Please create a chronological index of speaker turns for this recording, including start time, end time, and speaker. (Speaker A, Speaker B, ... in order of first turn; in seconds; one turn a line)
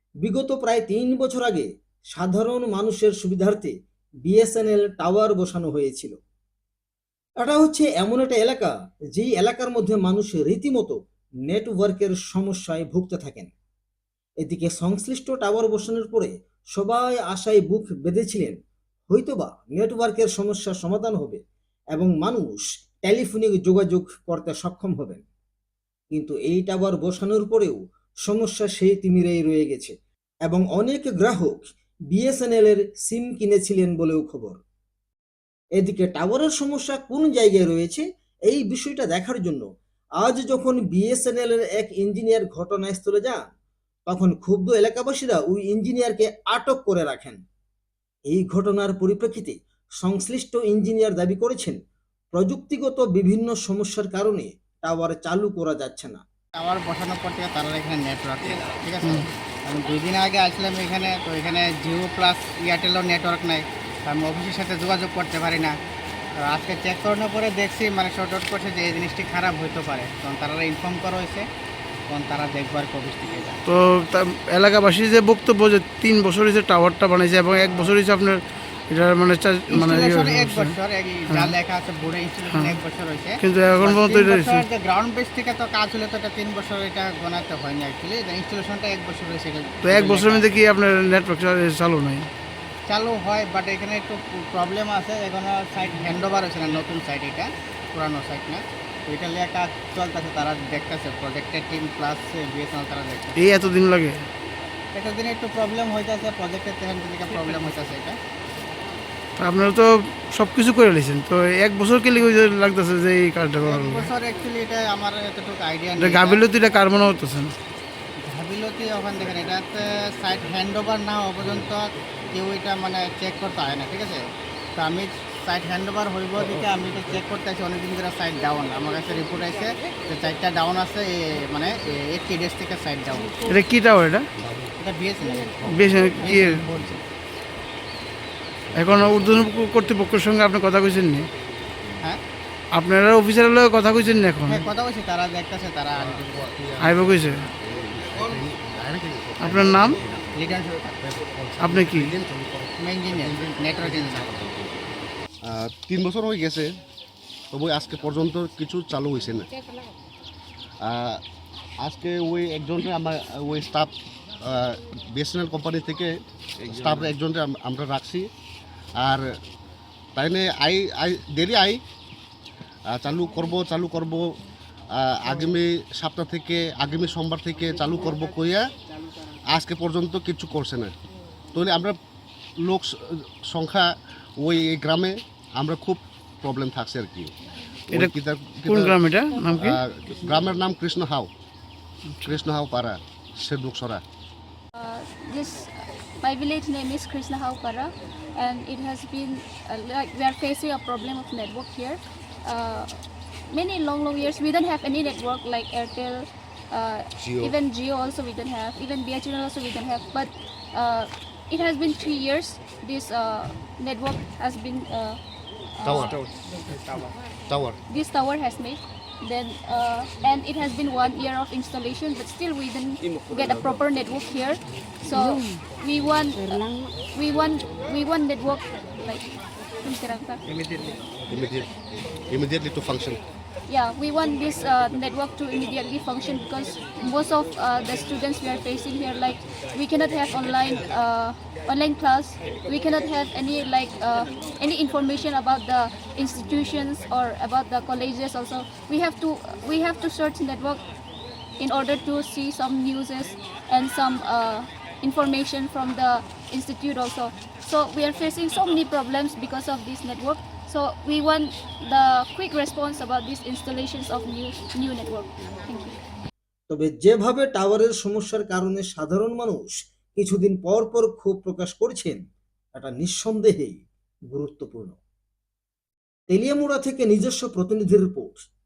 Speaker A: 0.2-3.7
Speaker A: 4.2-6.2
Speaker A: 7.4-11.0
Speaker A: 11.5-13.5
Speaker A: 14.4-18.6
Speaker A: 19.1-21.4
Speaker A: 21.9-25.2
Speaker A: 26.1-29.9
Speaker A: 30.4-31.6
Speaker A: 32.1-34.6
Speaker A: 35.8-39.6
Speaker A: 40.2-43.4
Speaker A: 44.1-47.4
Speaker A: 48.3-51.8
Speaker A: 52.3-56.2
Speaker B: 56.6-65.7
Speaker C: 59.0-59.3
Speaker B: 66.5-71.5
Speaker B: 72.1-73.6
Speaker C: 73.7-80.8
Speaker B: 79.7-90.5
Speaker C: 81.3-81.6
Speaker C: 82.5-82.8
Speaker C: 83.4-84.7
Speaker C: 89.8-92.3
Speaker B: 92.9-103.4
Speaker C: 103.4-104.3
Speaker B: 104.9-108.2
Speaker C: 109.4-114.1
Speaker B: 113.6-116.4
Speaker C: 116.0-117.5
Speaker B: 118.2-124.2
Speaker B: 124.8-133.4
Speaker C: 133.5-134.3
Speaker B: 134.8-137.0
Speaker C: 135.6-136.7
Speaker C: 138.8-141.3
Speaker D: 138.9-139.4
Speaker C: 142.7-144.7
Speaker B: 144.5-146.4
Speaker D: 146.0-150.3
Speaker C: 146.8-147.4
Speaker C: 149.4-150.0
Speaker B: 150.4-150.8
Speaker D: 150.8-154.9
Speaker C: 151.6-152.1
Speaker B: 152.8-154.3
Speaker D: 155.4-156.7
Speaker D: 157.5-159.5
Speaker D: 160.8-161.2
Speaker D: 161.8-163.9
Speaker D: 164.4-168.3
Speaker D: 169.0-169.3
Speaker D: 170.2-171.8
Speaker D: 172.9-174.3
Speaker D: 174.9-178.7
Speaker D: 179.5-180.9
Speaker D: 181.5-181.9
Speaker D: 182.6-187.3
Speaker D: 187.9-189.0
Speaker C: 188.7-189.8
Speaker D: 189.5-191.3
Speaker D: 192.2-194.0
Speaker E: 194.8-215.2
Speaker D: 207.2-207.5
Speaker E: 215.8-216.2
Speaker D: 215.8-216.2
Speaker D: 217.5-217.8
Speaker E: 217.9-229.2
Speaker E: 229.8-230.4
Speaker D: 231.3-231.7
Speaker D: 232.3-233.2
Speaker E: 233.7-250.8
Speaker E: 251.6-266.0
Speaker A: 266.7-272.2
Speaker A: 272.8-275.0
Speaker A: 276.3-278.5